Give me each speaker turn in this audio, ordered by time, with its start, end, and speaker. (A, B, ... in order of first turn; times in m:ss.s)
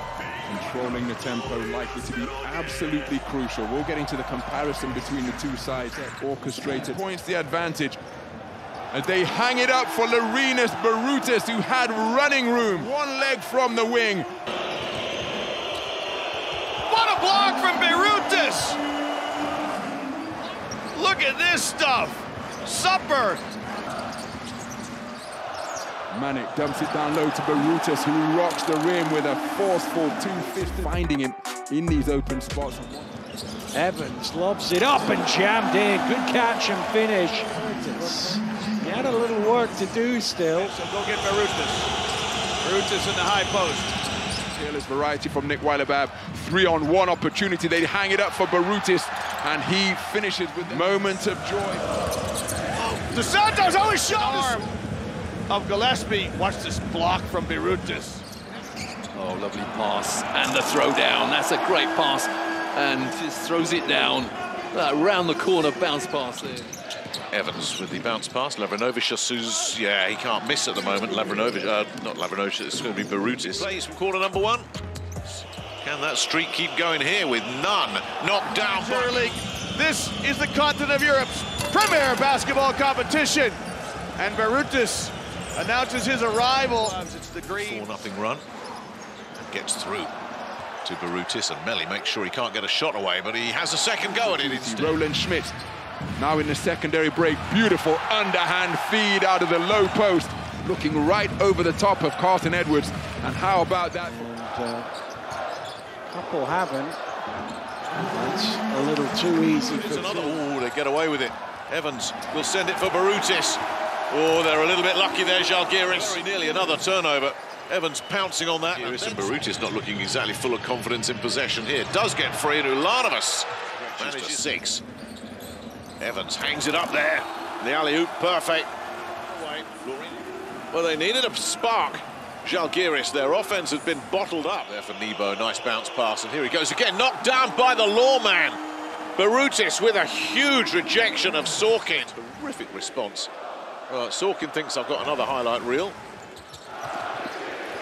0:00.5-0:08.0 A
0:08.9-0:14.3 A
0:16.9-0:18.8 B
0:20.9-0:23.4 B
0:26.1-0:33.1 A
0:33.7-0:40.8 C
0:40.6-0:41.9 B
0:42.6-0:43.9 B
0:44.5-0:51.8 A
0:52.8-0:54.7 B
0:55.5-0:58.2 B
0:59.2-1:06.7 D
1:07.3-1:14.7 E
1:15.3-1:19.3 E
1:18.6-1:23.6 B
1:24.2-1:27.9 B
1:27.6-1:28.4 E
1:29.4-1:30.1 E
1:30.8-1:35.0 E
1:34.1-1:35.6 A
1:36.2-1:44.3 A
1:44.0-1:44.9 C
1:46.1-1:47.0 C
1:48.0-1:50.4 C
1:49.7-2:04.8 E
2:06.0-2:08.7 E
2:09.2-2:10.2 E
2:10.7-2:18.6 E
2:19.2-2:23.3 E
2:23.9-2:26.0 E